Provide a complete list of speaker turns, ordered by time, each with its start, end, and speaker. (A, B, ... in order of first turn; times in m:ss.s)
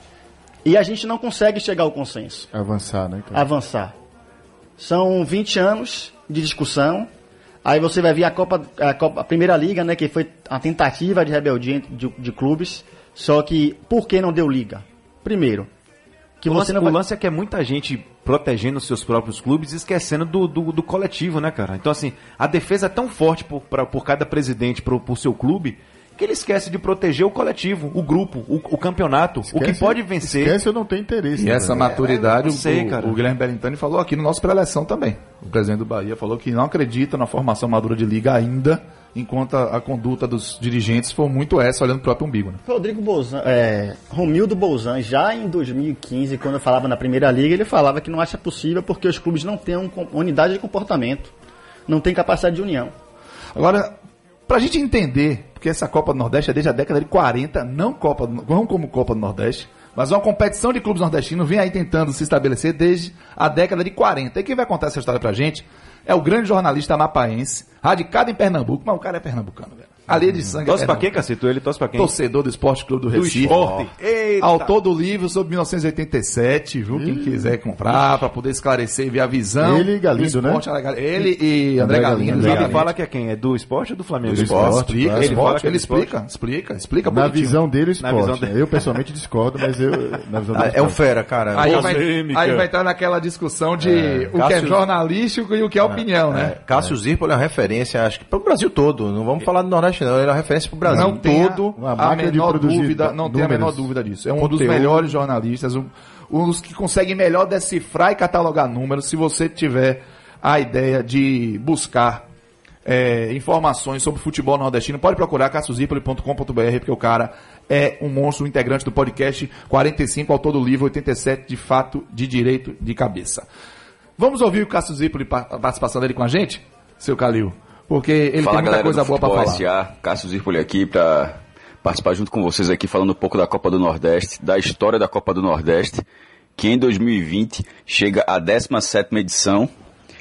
0:00.6-0:02.5 A
0:02.5-0:03.5 B
0:03.3-0:03.9 A
0:04.8-0:07.1 A
0:07.6-0:15.7 A
0:16.4-0:17.0 A
0:16.5-0:30.6 C
0:29.5-0:31.9 B
0:31.4-0:42.6 D
0:32.0-0:33.2 C
0:42.6-0:51.3 A
0:51.9-0:52.9 A
0:53.5-0:54.0 D
0:54.5-1:11.1 D
1:10.6-1:12.1 C
1:12.0-1:13.6 D
1:13.1-1:14.8 C
1:13.4-1:13.8 E
1:14.4-1:22.9 D
1:16.9-1:17.5 B
1:19.6-1:20.6 B
1:21.8-1:22.9 B
1:22.2-1:26.1 C
1:24.3-1:25.6 E
1:24.3-1:25.0 B
1:24.7-1:27.6 D
1:27.0-1:31.0 B
1:28.0-1:28.6 C
1:30.5-1:32.0 E
1:31.5-1:36.6 D
1:31.6-1:32.7 C
1:33.8-1:34.8 E
1:35.8-1:41.8 E
1:40.9-1:41.2 B
1:40.9-1:52.2 D
1:41.7-1:43.9 B
1:44.4-1:45.1 E
1:52.8-2:03.4 D
2:04.2-2:09.6 D
2:08.4-2:16.0 F
2:16.6-2:19.7 F